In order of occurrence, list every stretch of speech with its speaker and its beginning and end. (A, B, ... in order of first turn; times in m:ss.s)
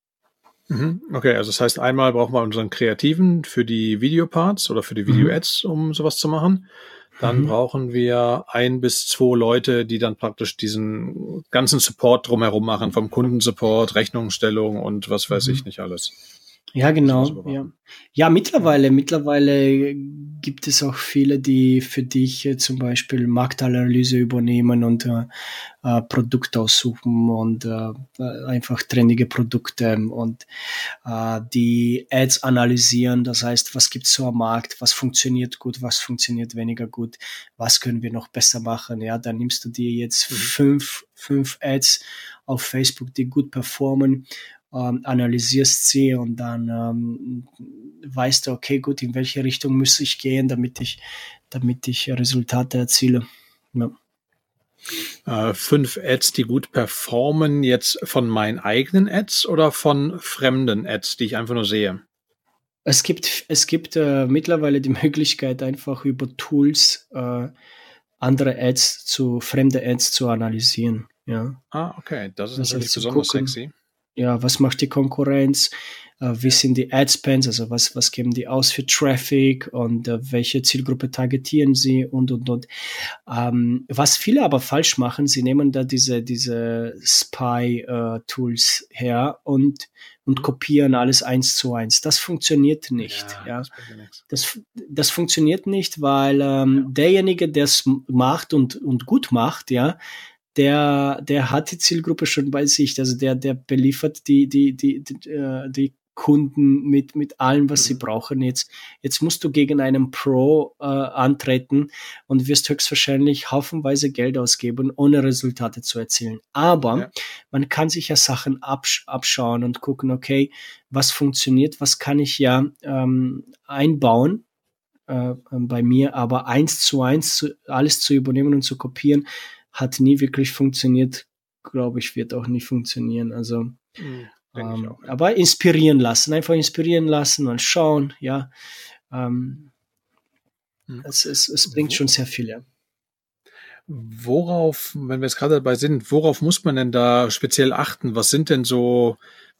0:00.7-0:16.1 A
0:05.1-0:05.3 B
0:07.2-0:07.5 B
0:15.4-0:15.6 B
0:16.7-0:25.3 B
0:17.0-0:17.7 A
0:25.8-0:53.9 B
0:55.2-1:02.0 A
1:02.8-1:07.5 B
1:08.2-1:11.6 B
1:11.7-1:13.7 A
1:12.6-1:13.5 B
1:14.2-1:22.7 B
1:23.3-1:33.7 B
1:33.0-1:34.2 A
1:34.3-1:40.0 B
1:40.5-2:04.4 B
2:05.1-2:13.8 B
2:14.0-2:15.1 A
2:14.5-2:18.5 B
2:19.1-2:19.7 B
2:21.0-2:22.6 B
2:21.7-2:22.0 A
2:23.9-2:29.2 A